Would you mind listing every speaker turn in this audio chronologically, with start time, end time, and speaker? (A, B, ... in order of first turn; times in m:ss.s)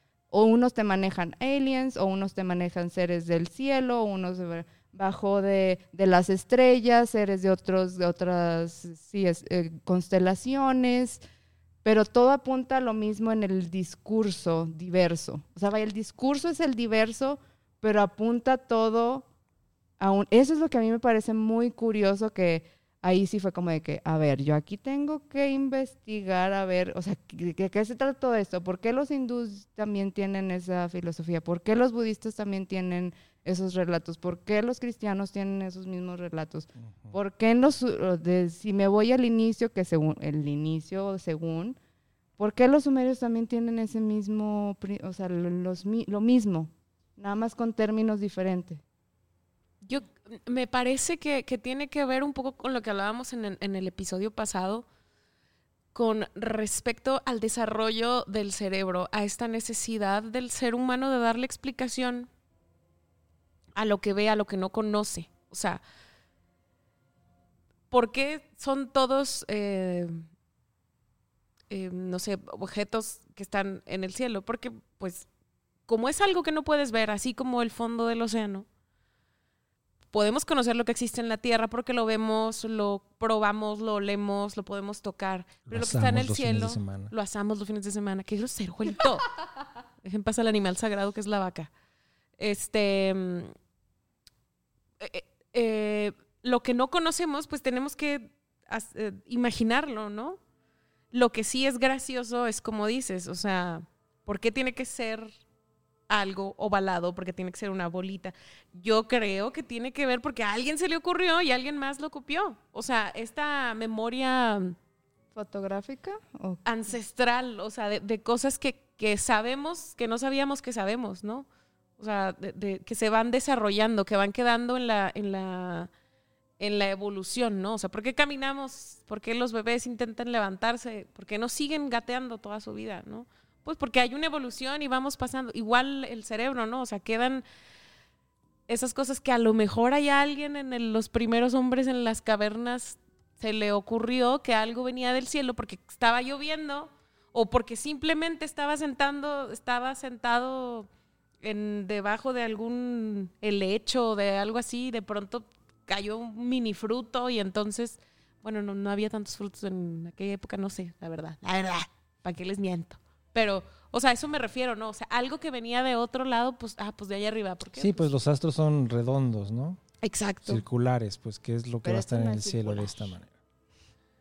0:00.3-0:11.2 A
0:11.8-0:19.3 A
0:20.0-0:41.8 A
0:36.8-0:37.1 B
0:42.4-0:48.8 A
0:49.8-0:54.8 C
0:55.9-1:02.3 C
1:03.8-1:05.8 C
1:07.9-1:10.3 C
1:11.7-1:15.3 C
1:15.9-1:18.7 C
1:20.1-1:29.3 C
1:25.7-1:27.1 B
1:30.0-1:31.7 C
1:32.4-1:33.5 C
1:35.0-1:40.4 C
1:41.1-1:45.3 C
1:46.1-1:54.8 C
1:55.4-1:56.6 A
1:56.6-2:01.5 C
2:02.0-2:05.9 C
2:06.6-2:17.4 C
2:18.7-2:30.9 C
2:31.4-2:48.1 C
2:47.8-2:49.8 B
2:50.0-2:50.6 C
2:50.4-2:53.3 B
2:51.8-2:53.2 A